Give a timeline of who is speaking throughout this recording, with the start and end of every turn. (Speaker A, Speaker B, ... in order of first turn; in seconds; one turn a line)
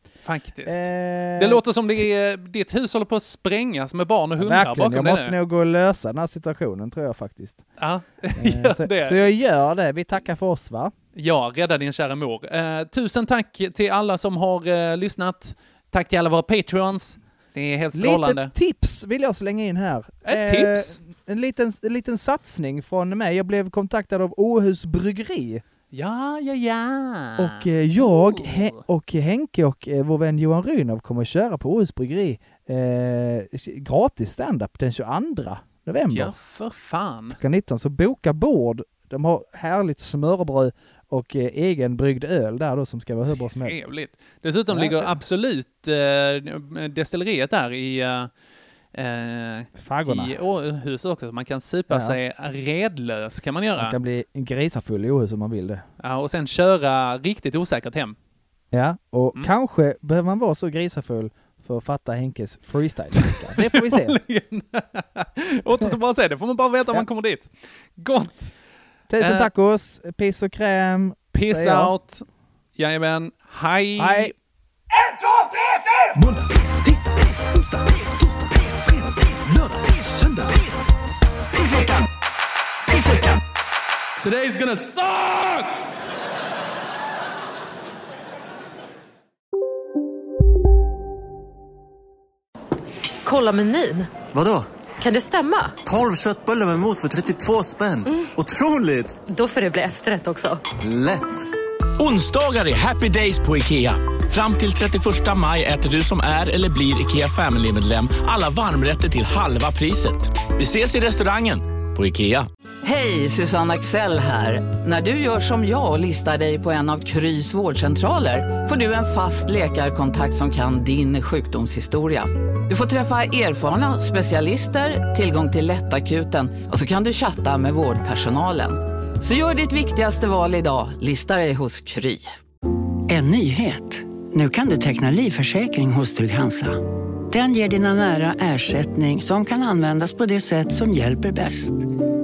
Speaker A: 0.2-5.3
Speaker B: 0.6-1.6
Speaker B: 4.4-7.7
Speaker A: 7.8-9.3
Speaker B: 8.4-10.9
Speaker A: 11.1-18.5
Speaker B: 17.9-25.6
Speaker A: 20.2-21.0
Speaker A: 25.9-28.8
Speaker B: 27.4-36.3
Speaker A: 36.1-37.4
Speaker B: 37.3-43.8
Speaker A: 43.3-48.3
Speaker B: 44.7-45.2
Speaker A: 48.9-54.0
Speaker B: 49.8-50.4
Speaker B: 51.9-52.2
Speaker B: 53.8-55.9
Speaker A: 56.0-58.2
Speaker B: 58.7-64.2
Speaker A: 63.3-68.5
Speaker B: 69.1-72.0
Speaker A: 69.2-69.5
Speaker A: 71.3-72.2
Speaker A: 72.8-74.3
Speaker B: 74.0-74.3
Speaker C: 75.0-81.0
Speaker C: 81.5-82.1
Speaker C: 82.9-83.4
Speaker C: 84.2-85.7
Speaker D: 93.2-94.1
Speaker E: 94.3-94.7
Speaker D: 95.0-95.8
Speaker E: 95.8-99.2
Speaker D: 99.2-100.6
Speaker E: 100.7-101.5
Speaker F: 102.0-112.5
Speaker G: 112.8-132.3
Speaker H: 133.1-141.9